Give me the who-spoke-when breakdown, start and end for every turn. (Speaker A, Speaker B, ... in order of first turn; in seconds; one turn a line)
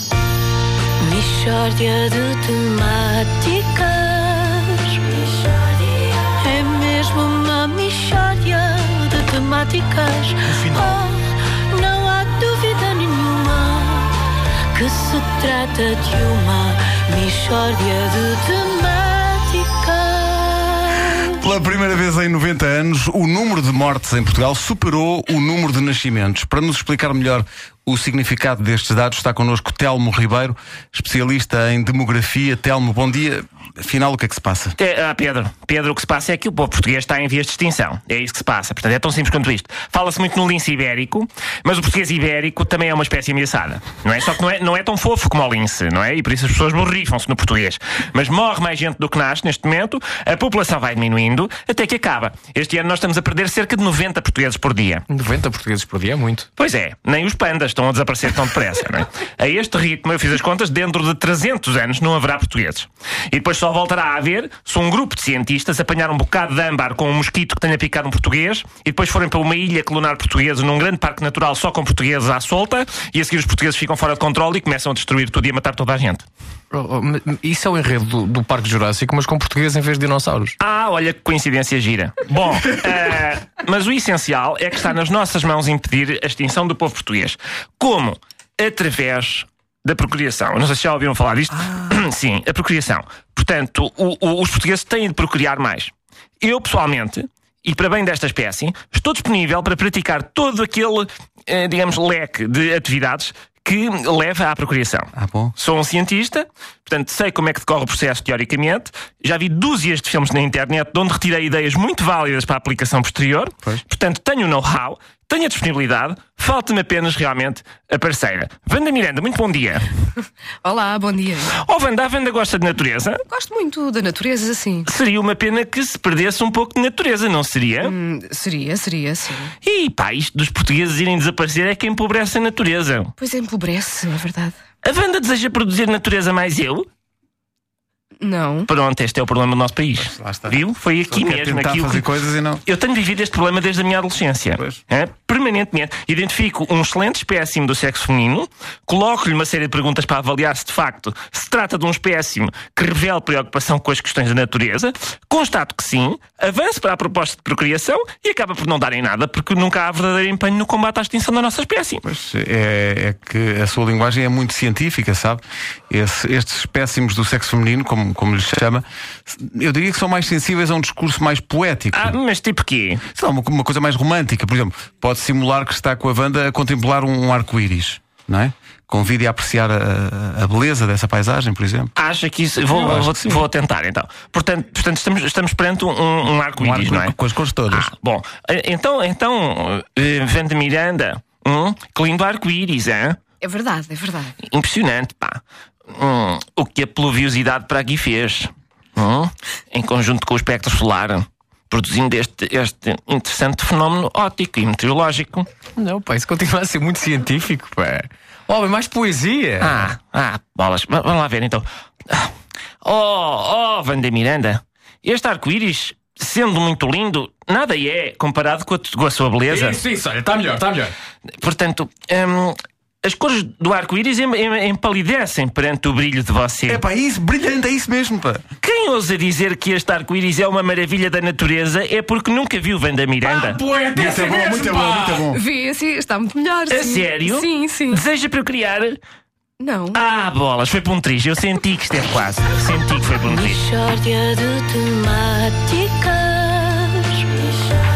Speaker A: 1.0-5.6
Speaker A: 6.2-14.2
Speaker B: 10.5-10.9
Speaker A: 14.7-21.3
Speaker C: 21.2-34.8
Speaker D: 34.8-55.1
Speaker B: 55.1-56.5
Speaker D: 56.6-76.2
Speaker B: 76.7-80.6
Speaker D: 80.6-119.9
Speaker C: 105.2-105.5
Speaker E: 120.6-121.5
Speaker D: 121.5-123.2
Speaker E: 123.3-124.9
Speaker D: 124.9-128.0
Speaker E: 127.8-129.5
Speaker D: 129.6-133.1
Speaker E: 133.2-134.6
Speaker D: 134.8-136.9
Speaker E: 138.2-138.7
Speaker D: 138.7-142.1
Speaker C: 140.0-142.6
Speaker D: 142.7-162.0
Speaker C: 162.1-172.2
Speaker D: 171.9-173.1
Speaker C: 173.1-181.9
Speaker D: 182.0-187.2
Speaker C: 182.8-183.4
Speaker C: 186.6-187.9
Speaker D: 187.7-193.2
Speaker E: 193.4-194.4
Speaker D: 194.4-205.5
Speaker B: 205.8-209.9
Speaker D: 209.6-212.3
Speaker D: 212.8-219.8
Speaker B: 219.5-220.9
Speaker D: 221.4-226.8
Speaker C: 226.7-228.4
Speaker D: 228.6-233.6
Speaker B: 233.2-235.3
Speaker C: 233.9-235.4
Speaker E: 235.3-238.0
Speaker D: 236.7-239.0
Speaker E: 239.6-240.0
Speaker D: 239.9-243.6
Speaker A: 243.2-247.5